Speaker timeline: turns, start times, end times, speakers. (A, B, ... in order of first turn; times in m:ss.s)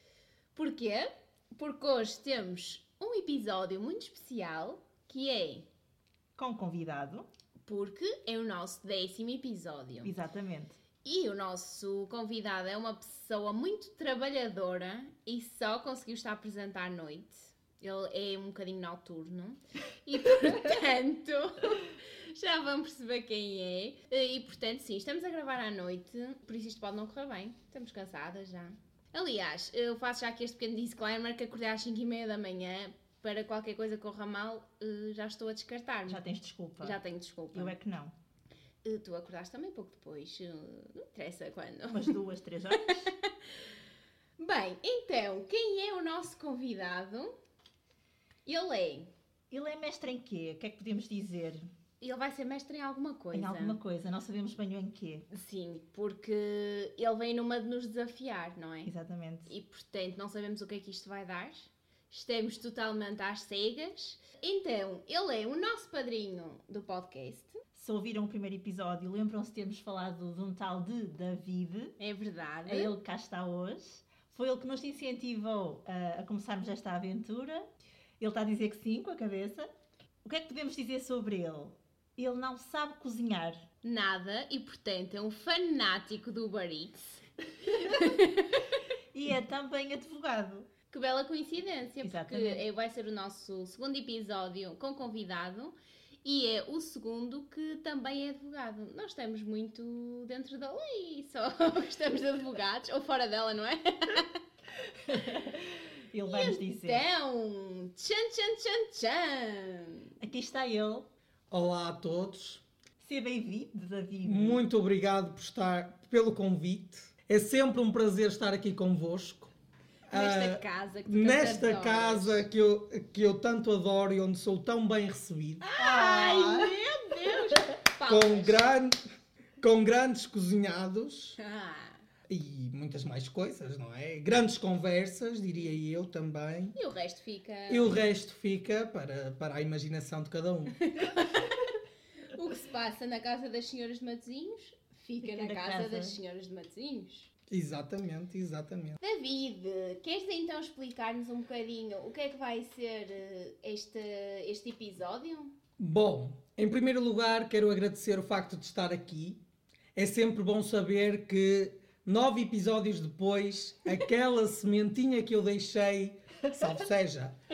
0:00.5-0:05.7 A
0:06.4-0:07.3 B
0:07.6-0:10.1 A
0:10.0-0:10.8 B
0:11.0-0:36.2 A
0:36.1-0:37.0 B
0:36.8-0:37.7 A
0:37.5-0:38.1 B
0:38.8-0:42.2 A
0:41.9-0:43.1 B
0:42.7-0:43.3 A
0:44.4-0:47.3 A
0:48.5-0:49.1 A
0:49.5-0:51.7 B
0:52.0-0:53.8 A
0:53.3-0:55.3 B
0:55.3-0:58.9 A
0:58.8-0:59.5 B
0:59.5-1:07.6 A
1:07.7-1:12.0 B
1:12.0-1:12.9 A
1:12.7-1:17.7 B
1:18.2-1:19.7 B
1:20.2-1:23.6 B
1:23.8-1:27.2 A
1:27.8-1:28.6 A
1:29.1-1:30.7 B
1:30.9-1:44.4 A
1:32.0-1:32.6 B
1:45.0-1:47.0 B
1:46.3-1:50.1 A
1:50.2-1:51.1 B
1:51.5-1:52.6 C
1:53.0-1:54.6 B
1:54.2-1:59.5 C
2:00.1-2:05.7 C
2:00.1-2:02.4 A
2:05.6-2:08.6 A
2:05.8-2:06.7 B
2:08.1-2:09.0 C
2:09.6-2:11.4 C
2:11.4-2:12.0 A
2:12.3-2:16.8 C
2:16.8-2:18.0 A
2:17.7-2:20.8 C
2:20.8-2:21.6 A
2:22.3-2:27.3 A
2:25.2-2:26.2 B
2:27.5-2:29.0 C
2:29.0-2:35.5 A
2:35.8-2:39.4 C
2:40.0-2:47.3 C